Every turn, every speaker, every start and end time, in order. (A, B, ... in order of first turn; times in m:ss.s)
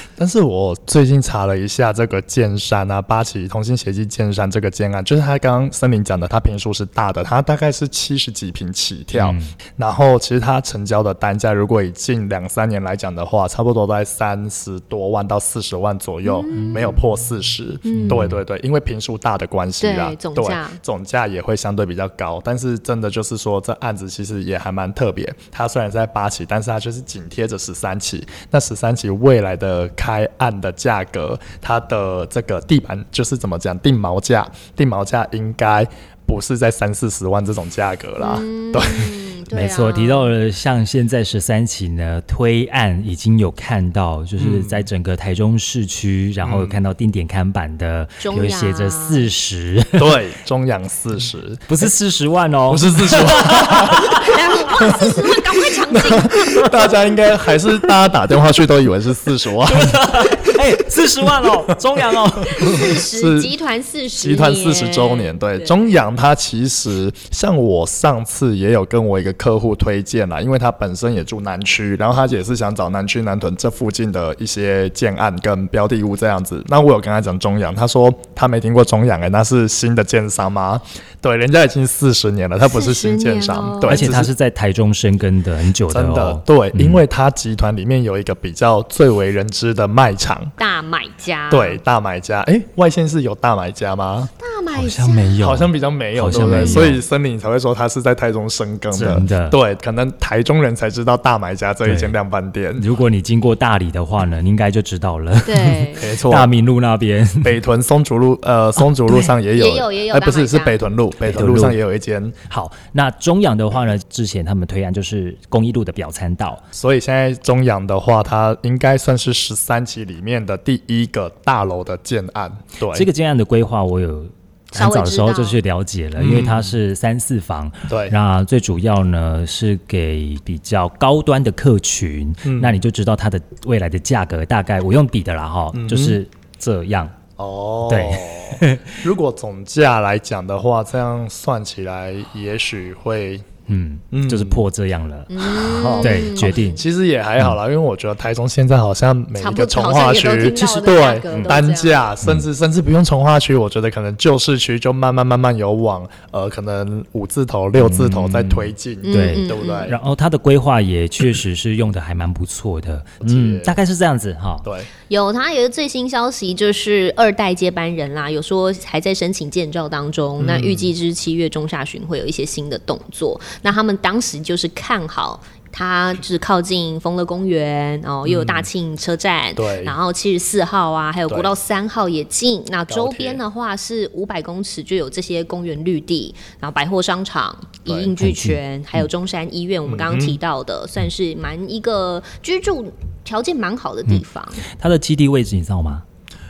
0:00.2-0:39.2 A
0:09.1-0:09.5 B
0:16.2-0:17.0 C
0:16.5-0:16.8 B
0:17.8-0:18.2 C
0:17.9-0:18.4 B
0:19.8-0:20.8 C
0:38.2-0:40.3 C
0:39.5-0:50.2 B
0:44.4-0:44.9 A
0:46.4-0:46.8 A
0:48.2-0:49.3 C
0:50.0-0:51.9 A
0:51.7-0:54.4 B
0:52.7-0:55.3 A
0:54.0-0:57.2 C
0:55.9-1:00.5 A
0:59.7-1:02.9 B
1:02.5-1:05.7 C
1:02.6-1:03.5 A
1:04.2-1:24.3 A
1:22.7-1:24.1 C
1:23.8-1:27.0 B
1:25.9-1:30.5 A
1:30.6-1:31.8 C
1:31.5-1:34.3 A
1:34.4-1:35.4 C
1:34.7-1:37.0 B
1:35.4-1:42.9 A
1:36.3-1:36.9 C
1:38.9-1:39.6 B
1:41.8-1:42.2 B
1:42.8-1:47.6 B
1:45.5-1:46.1 C
1:46.0-1:46.5 A
1:47.4-1:52.4 A
1:49.5-1:50.8 C
1:51.2-1:51.8 B
1:52.5-1:56.6 B
1:56.7-2:03.1 A
2:02.9-2:17.1 B
2:04.7-2:05.6 C
2:06.2-2:06.8 A
2:07.9-2:08.1 A
2:12.4-2:12.8 A
2:15.7-2:16.2 A
2:17.4-2:23.4 A
2:17.9-2:19.0 B
2:23.7-2:26.8 B
2:24.1-2:24.6 A
2:25.3-2:26.8 C
2:25.5-2:40.0 A
2:29.4-2:32.0 C
2:37.8-2:44.7 B
2:39.0-2:39.9 C
2:43.2-2:43.8 A
2:44.6-2:44.9 A
2:45.1-3:14.6 C
2:50.4-2:50.9 A
2:58.2-2:58.7 A
2:59.6-3:00.0 A
3:02.9-3:03.4 A
3:07.9-3:08.1 A
3:08.2-3:08.6 B
3:09.9-3:10.4 A
3:14.1-3:16.0 B